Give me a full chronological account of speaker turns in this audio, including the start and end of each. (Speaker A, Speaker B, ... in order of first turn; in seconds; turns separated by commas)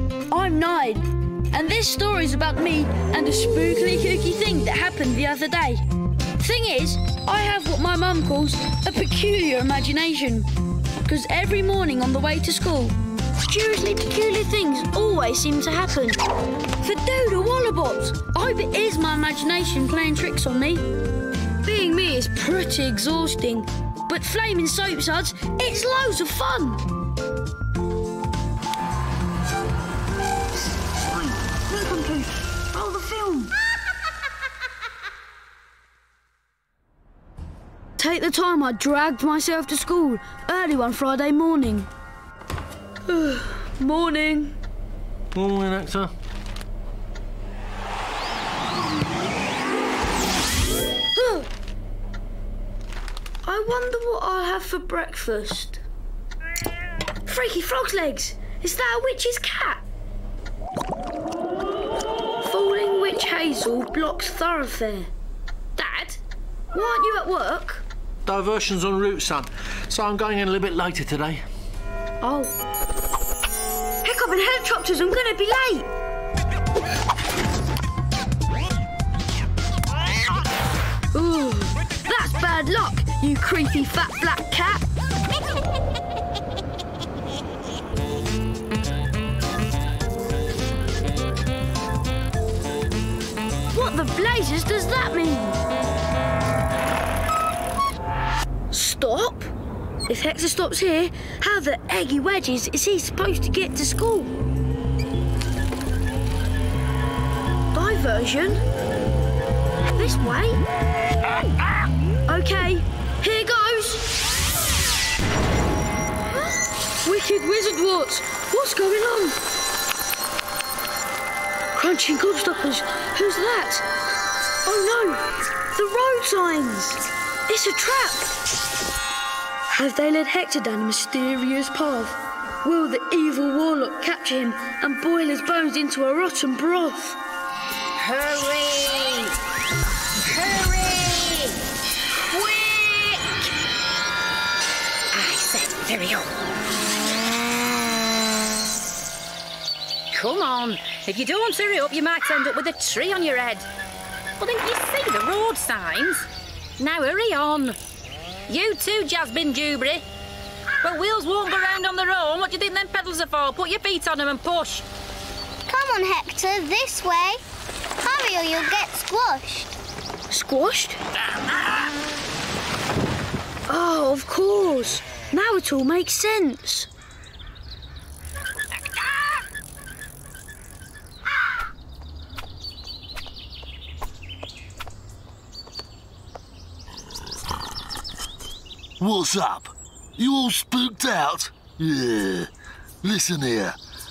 Speaker A: 0.3-5.8, Speaker A: 6.4-10.5, Speaker A: 11.0-16.2, Speaker A: 16.8-20.8, Speaker A: 21.6-26.8, Speaker A: 31.1-33.5, Speaker A: 38.0-41.9, Speaker A: 43.0-44.6, Speaker B: 45.3-46.1, Speaker A: 51.1-51.5, Speaker A: 53.4-55.8, Speaker A: 57.2-59.8, Speaker A: 62.4-65.1, Speaker A: 65.8-66.2, Speaker A: 66.7-67.8, Speaker B: 68.2-71.4, Speaker A: 72.2-72.5, Speaker A: 74.0-75.9, Speaker A: 81.1-84.8, Speaker A: 93.7-95.6, Speaker A: 98.7-99.5, Speaker A: 100.1-104.3, Speaker A: 107.7-108.6, Speaker A: 109.9-110.6, Speaker A: 112.2-114.1, Speaker A: 117.0-119.4, Speaker A: 121.7-123.8, Speaker A: 124.6-128.3, Speaker A: 129.7-137.2, Speaker C: 138.0-139.3, Speaker C: 140.3-141.6, Speaker C: 142.3-143.1, Speaker C: 145.1-146.3, Speaker C: 150.1-153.7, Speaker C: 154.4-156.3, Speaker C: 156.8-157.8, Speaker C: 158.5-160.0, Speaker C: 160.8-164.8, Speaker D: 165.7-167.4, Speaker D: 168.0-169.7, Speaker A: 170.3-171.0, Speaker A: 173.7-176.9, Speaker E: 189.0-192.5, Speaker E: 193.0-193.8